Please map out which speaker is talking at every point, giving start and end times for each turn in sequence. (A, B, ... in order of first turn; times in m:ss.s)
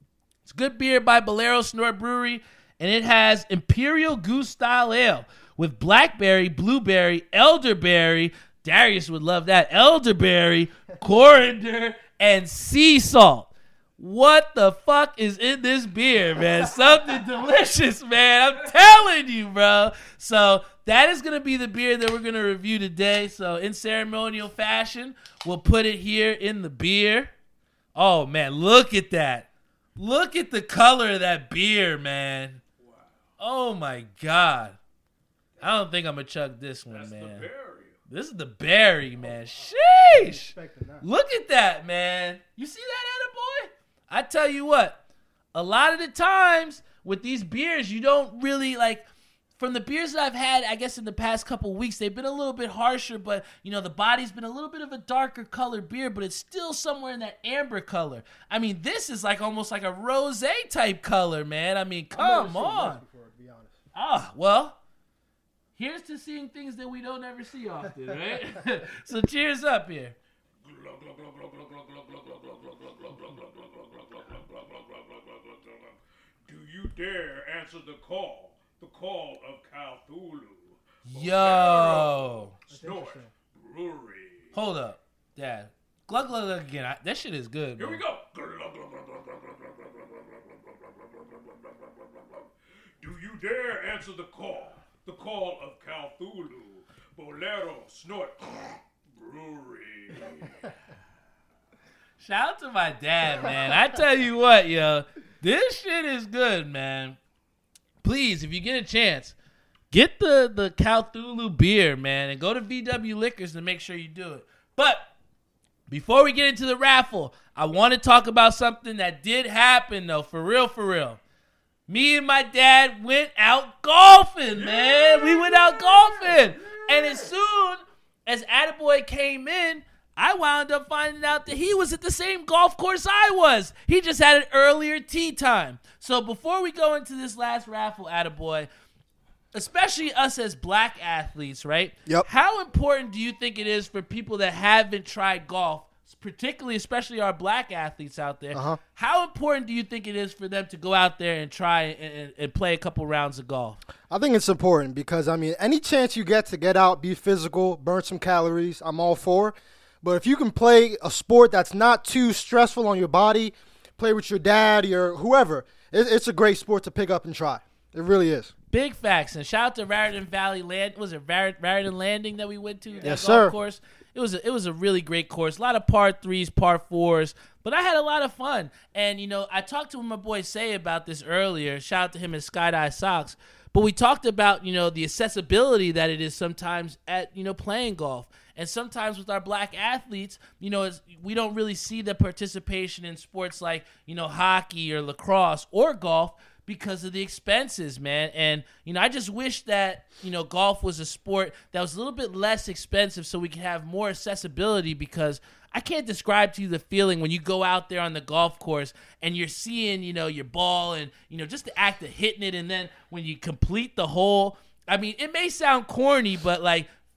0:00.4-0:27.3 A
0:27.9-0:32.6 A
0:32.8-0:33.1 B
0:33.4-0:34.8 A
0:35.6-0:37.5 A
0:36.9-0:38.0 B
0:38.1-0:45.0 A
0:40.0-0:41.0 C
0:45.5-0:49.0 A
0:49.6-1:03.0 A
1:02.1-1:03.8 C
1:03.9-1:04.8 A
1:05.8-1:10.2 A
1:10.6-1:24.5 B
1:21.0-1:22.5 A
1:22.7-1:23.2 C
1:24.5-1:28.0 A
1:27.8-1:32.5 B
1:33.0-1:40.7 B
1:42.2-1:47.2 A
1:48.0-1:49.3 A
1:49.9-1:55.1 A
1:55.9-2:01.2 A
2:01.9-2:18.7 A
2:04.5-2:07.3 B
2:19.5-2:33.8 A
2:28.5-2:28.8 C
2:34.1-2:48.5 C
2:48.7-3:36.9 A
2:53.0-2:53.6 C